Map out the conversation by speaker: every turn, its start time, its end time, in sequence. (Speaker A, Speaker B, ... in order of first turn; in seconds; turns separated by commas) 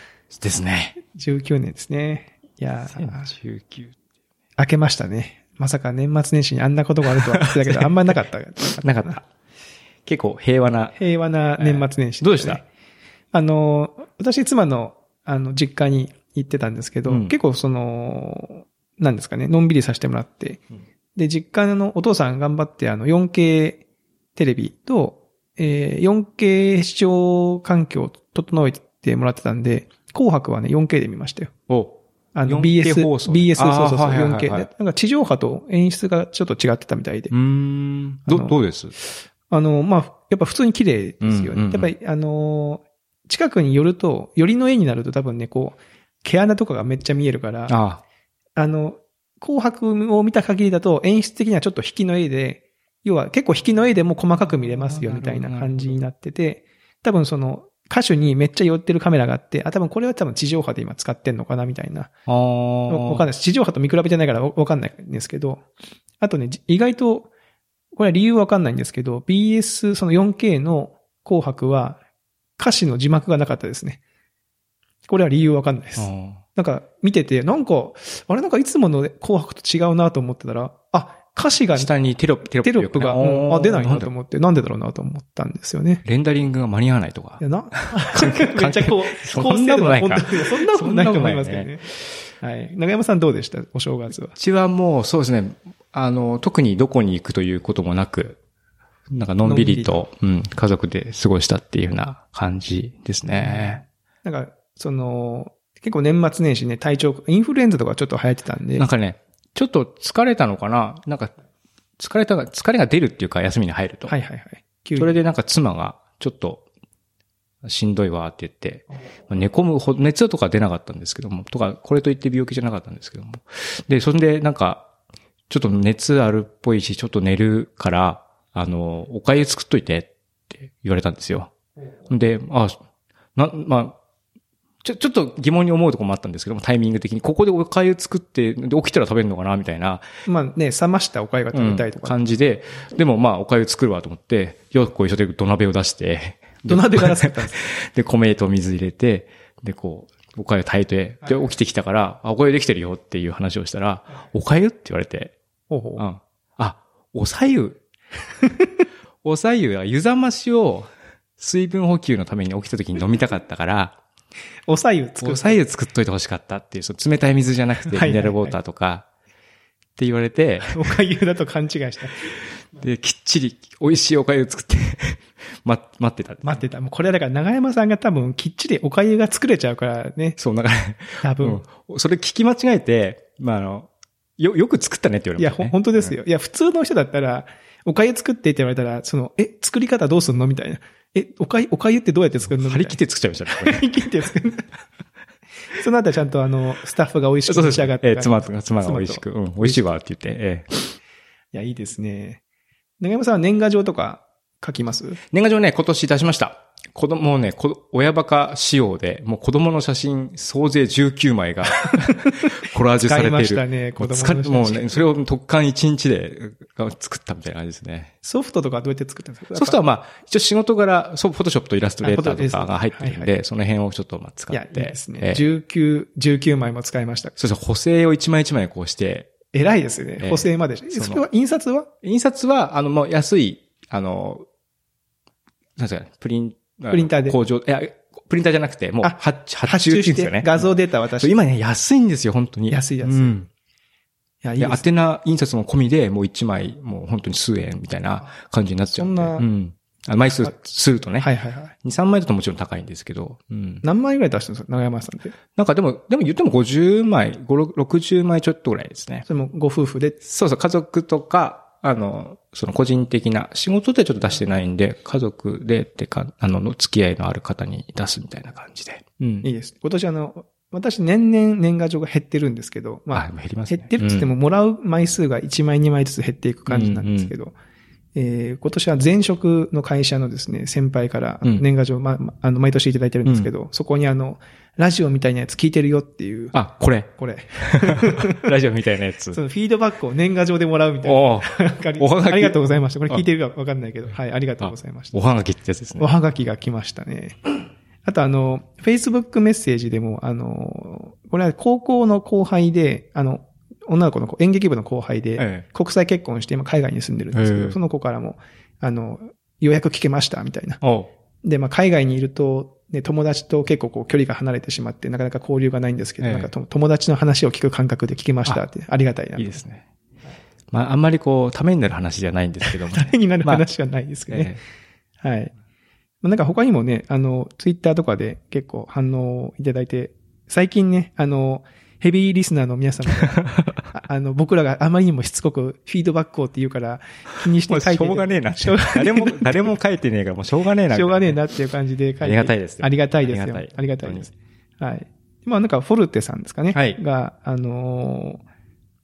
Speaker A: 0.3-1.0, Speaker B: 1.1-3.3, Speaker A: 2.9-4.0, Speaker B: 4.6-9.2, Speaker A: 7.0-8.1, Speaker A: 8.8-9.2, Speaker A: 10.1-11.0, Speaker B: 10.9-12.7, Speaker A: 11.6-12.6, Speaker B: 13.3-20.6, Speaker A: 17.1-17.4, Speaker B: 21.2-23.8, Speaker B: 24.4-31.5, Speaker A: 31.7-34.7, Speaker B: 32.4-37.3, Speaker A: 37.3-38.9, Speaker B: 38.3-38.6, Speaker B: 39.5-47.8, Speaker A: 41.2-41.9, Speaker A: 47.7-48.0, Speaker B: 48.6-62.1, Speaker A: 54.4-56.0, Speaker A: 62.3-63.2, Speaker B: 62.9-65.7, Speaker B: 66.2-67.3, Speaker B: 67.9-72.0, Speaker B: 72.6-74.0, Speaker B: 75.1-81.9, Speaker A: 76.0-76.4, Speaker A: 81.7-84.1, Speaker B: 82.6-86.0, Speaker A: 86.0-91.7, Speaker B: 87.4-91.9, Speaker B: 92.4-94.3, Speaker A: 94.3-98.4, Speaker A: 99.1-103.8, Speaker B: 99.4-100.0, Speaker B: 103.3-108.9, Speaker A: 108.8-111.3, Speaker A: 112.0-114.1, Speaker B: 114.1-115.2, Speaker A: 115.0-116.7, Speaker A: 117.7-124.9, Speaker A: 125.5-131.5, Speaker A: 132.1-132.8, Speaker A: 133.4-134.0, Speaker A: 134.8-140.1, Speaker B: 140.3-142.2, Speaker A: 141.5-155.3, Speaker B: 146.7-147.6, Speaker B: 155.7-156.0, Speaker A: 156.0-157.8, Speaker A: 159.2-164.0, Speaker B: 164.7-165.6, Speaker A: 165.2-169.1, Speaker B: 167.9-168.6, Speaker A: 170.0-170.8, Speaker B: 170.7-172.3, Speaker A: 172.8-176.6, Speaker B: 176.4-180.4, Speaker A: 180.4-186.1, Speaker B: 181.2-181.6, Speaker B: 185.4-193.0, Speaker A: 192.4-194.0, Speaker B: 193.5-194.7, Speaker B: 195.8-199.8, Speaker A: 197.5-200.9, Speaker B: 201.5-202.4, Speaker B: 203.0-205.2, Speaker A: 205.3-218.1, Speaker B: 213.0-215.0, Speaker B: 218.2-219.8, Speaker A: 219.5-225.4, Speaker B: 222.0-223.3, Speaker B: 224.5-227.4, Speaker A: 227.4-229.3, Speaker B: 229.5-231.9, Speaker A: 230.2-231.2, Speaker A: 232.0-234.4, Speaker A: 235.8-240.7, Speaker B: 236.9-237.4, Speaker B: 239.0-241.3, Speaker A: 241.2-243.5, Speaker B: 242.7-243.4, Speaker B: 244.4-244.8, Speaker A: 244.6-251.3, Speaker B: 248.9-249.5, Speaker B: 251.2-251.7, Speaker A: 251.8-253.8, Speaker B: 253.8-255.4, Speaker A: 255.5-259.2, Speaker B: 259.3-260.2, Speaker A: 260.2-269.5, Speaker B: 269.4-277.6, Speaker A: 273.1-274.3, Speaker A: 276.7-277.3, Speaker B: 278.1-286.6, Speaker A: 283.2-283.5, Speaker A: 286.5-289.4, Speaker B: 287.2-288.5, Speaker B: 289.3-295.2, Speaker A: 291.0-293.2, Speaker A: 294.6-296.1, Speaker B: 296.0-297.4, Speaker B: 298.1-310.8, Speaker A: 305.4-305.6, Speaker A: 307.3-307.8, Speaker A: 310.8-311.1, Speaker B: 311.4-319.6, Speaker A: 316.2-316.5, Speaker A: 319.4-319.8, Speaker A: 320.7-323.6, Speaker B: 322.7-324.6, Speaker A: 324.3-324.6, Speaker B: 325.2-325.5, Speaker B: 326.2-339.7, Speaker A: 333.4-333.7, Speaker A: 337.7-341.4, Speaker B: 340.9-348.4, Speaker A: 342.2-344.3, Speaker A: 346.7-347.0